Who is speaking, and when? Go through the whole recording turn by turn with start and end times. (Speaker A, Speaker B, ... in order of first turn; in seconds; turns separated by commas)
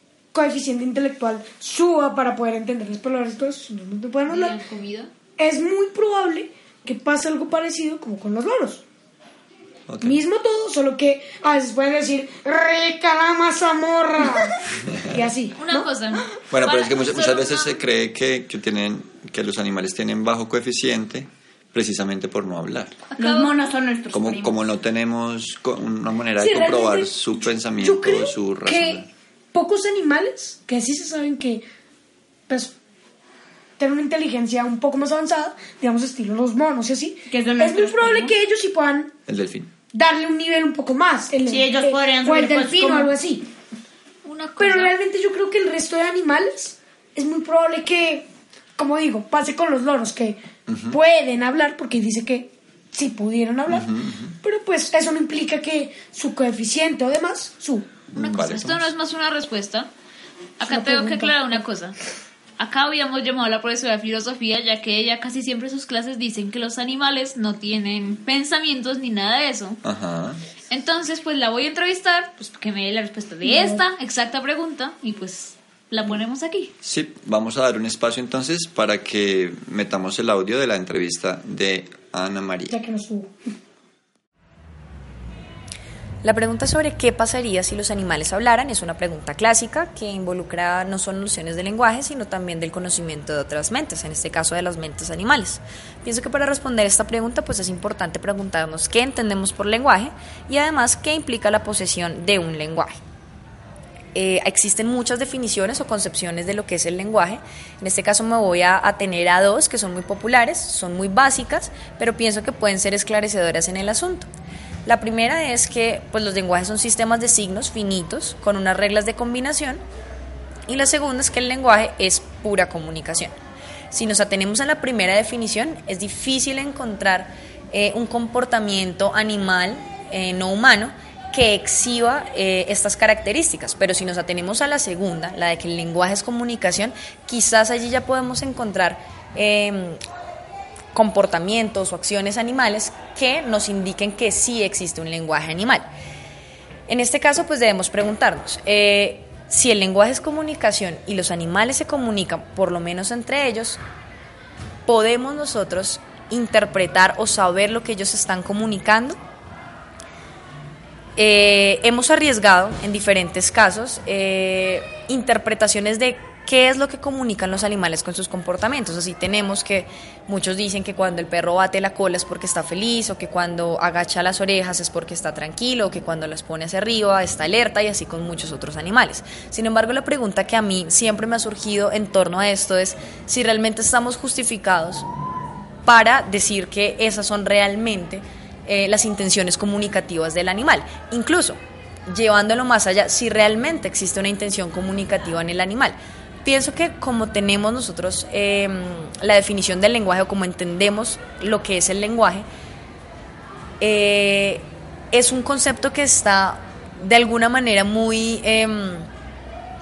Speaker A: 0.3-4.6, Speaker B: 4.3-5.1, Speaker A: 5.4-8.8, Speaker C: 9.9-10.2, Speaker A: 10.0-15.9, Speaker C: 14.9-15.2, Speaker B: 15.5-17.8, Speaker C: 16.5-23.0, Speaker B: 23.1-23.5, Speaker D: 23.2-24.6, Speaker C: 24.1-29.1, Speaker A: 26.4-31.6, Speaker A: 32.5-32.8, Speaker A: 33.8-39.1, Speaker D: 37.3-38.4, Speaker C: 39.3-39.7, Speaker A: 39.9-43.5, Speaker D: 41.4-43.1, Speaker B: 44.2-44.9, Speaker A: 44.6-58.0, Speaker C: 50.7-51.0, Speaker C: 53.7-54.4, Speaker C: 58.1-58.9, Speaker B: 58.1-59.9, Speaker B: 60.6-62.0, Speaker A: 60.6-61.6, Speaker B: 62.6-69.8, Speaker C: 69.8-70.4, Speaker B: 70.7-76.7, Speaker A: 73.4-73.8, Speaker C: 76.8-82.8, Speaker A: 82.7-83.3, Speaker E: 86.2-103.0, Speaker E: 104.1-114.3, Speaker E: 114.8-119.8, Speaker E: 120.7-123.3, Speaker E: 123.9-140.0, Speaker E: 140.9-145.9, Speaker E: 146.9-153.8, Speaker E: 154.8-159.2, Speaker E: 161.2-185.1, Speaker E: 185.8-202.4, Speaker E: 203.8-209.1